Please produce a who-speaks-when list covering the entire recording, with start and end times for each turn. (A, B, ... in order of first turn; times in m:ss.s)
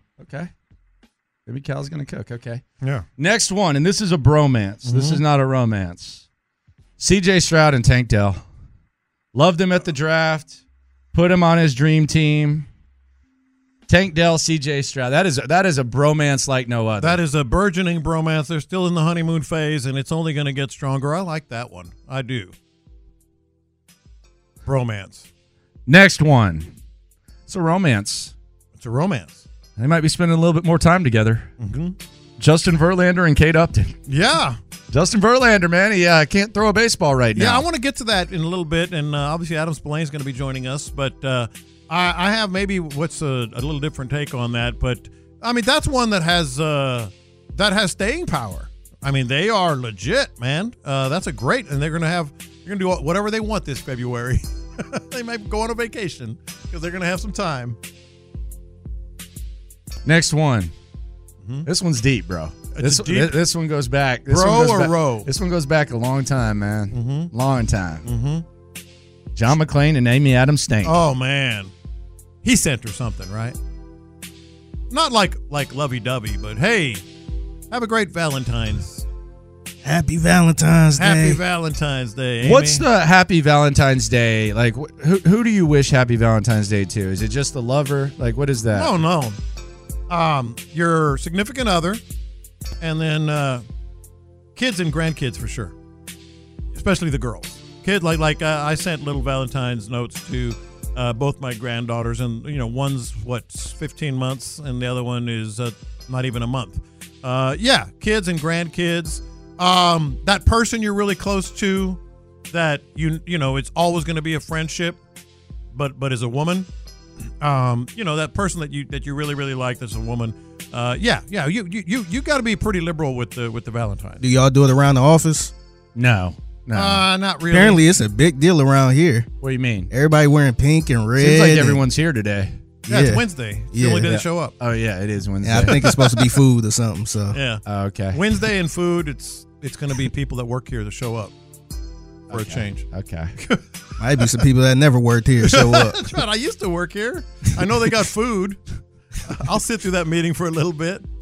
0:00.2-0:00.5 A
0:01.5-0:02.6 A
0:02.8-0:03.0 B
0:03.2-0:06.2 A
0:04.8-0:05.2 B
0:07.0-0:08.4 A
0:09.3-0:10.6 A
0:11.1-0:12.7 A
0:13.9-0:17.2 A
0:17.0-0:22.5 B
0:24.6-0:25.2 B
0:25.9-0:26.7 A
0:27.5-0:28.3 A
0:28.8-0:29.4 B
0:29.8-0:31.5 A
0:31.6-0:32.0 B
0:32.4-0:34.0 A
0:34.1-0:34.6 B
0:34.9-0:37.6 A
0:37.4-0:57.8 B
1:00.0-1:00.7 A
1:01.6-1:08.0 A
1:02.7-1:03.4 B
1:04.3-1:05.3 B
1:06.9-1:07.3 B
1:08.0-1:08.4 B
1:09.4-1:11.0 A
1:10.8-1:11.7 B
1:12.4-1:13.6 B
1:14.9-1:17.0 B
1:17.7-1:19.0 B
1:19.8-1:21.4 C
1:21.0-1:22.8 B
1:22.4-1:28.9 A
1:28.7-1:29.4 B
1:30.1-1:32.0 B
1:32.8-1:33.6 B
1:34.6-1:35.7 B
1:36.7-1:52.0 B
1:52.5-1:55.0 B
1:55.7-1:56.7 B
1:57.4-2:04.2 B
2:04.2-2:05.5 C
2:05.9-2:07.0 A
2:06.7-2:07.8 B
2:07.5-2:09.3 C
2:09.4-2:09.9 A
2:09.9-2:11.8 C
2:11.2-2:12.5 A
2:12.9-2:14.1 C
2:12.9-2:14.5 B
2:14.0-2:16.0 A
2:15.4-2:17.4 C
2:17.3-2:21.3 B
2:17.6-2:18.2 A
2:22.3-2:23.3 A
2:22.3-2:22.8 B
2:23.4-2:23.6 B
2:24.0-2:26.2 C
2:25.4-2:28.6 B
2:29.2-2:31.0 B